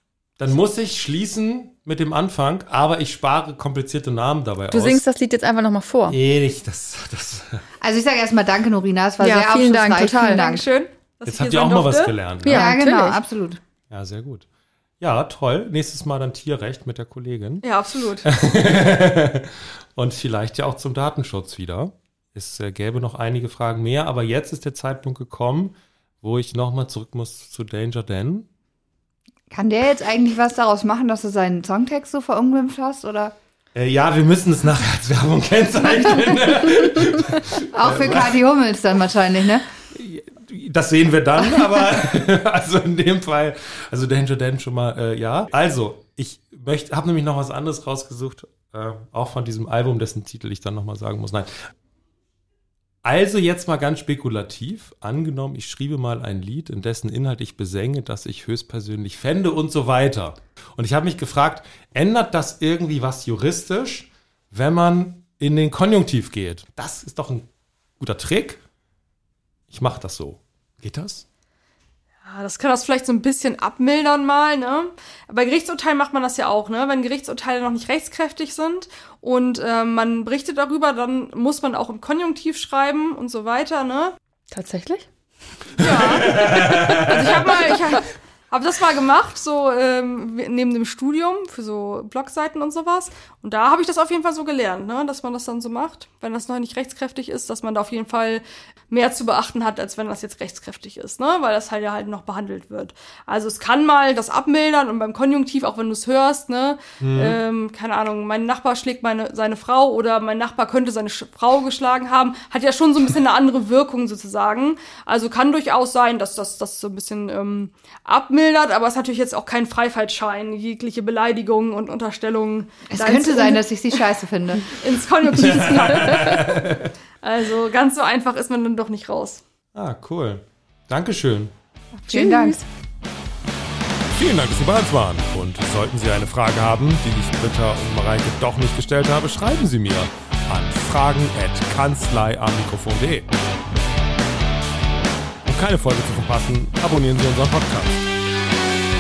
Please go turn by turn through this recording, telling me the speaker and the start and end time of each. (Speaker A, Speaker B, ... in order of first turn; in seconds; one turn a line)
Speaker A: 0.4-5.0
Speaker B: 4.7-6.2
Speaker A: 6.1-7.6
Speaker C: 7.8-10.6
Speaker B: 9.2-10.4
Speaker D: 10.2-12.1
Speaker A: 11.3-12.7
Speaker B: 12.4-13.2
Speaker C: 12.4-13.6
Speaker A: 13.9-14.4
Speaker A: 15.0-17.6
Speaker D: 17.6-18.3
Speaker A: 18.2-28.5
Speaker C: 29.5-33.3
Speaker A: 33.7-38.4
Speaker C: 37.7-39.6
Speaker A: 39.9-51.5
Speaker A: 53.0-67.5
Speaker A: 68.0-68.6
Speaker A: 69.7-71.2
Speaker D: 72.2-84.1
Speaker B: 84.5-85.1
Speaker D: 85.8-123.6
Speaker A: 86.2-87.5
Speaker B: 86.3-87.8
Speaker A: 107.0-107.4
Speaker C: 122.9-124.7
Speaker D: 124.7-126.7
Speaker A: 125.3-126.9
Speaker D: 127.2-129.4
Speaker A: 129.7-131.5
Speaker C: 131.9-132.6
Speaker B: 132.1-132.6
Speaker A: 134.1-143.3
Speaker A: 145.4-148.1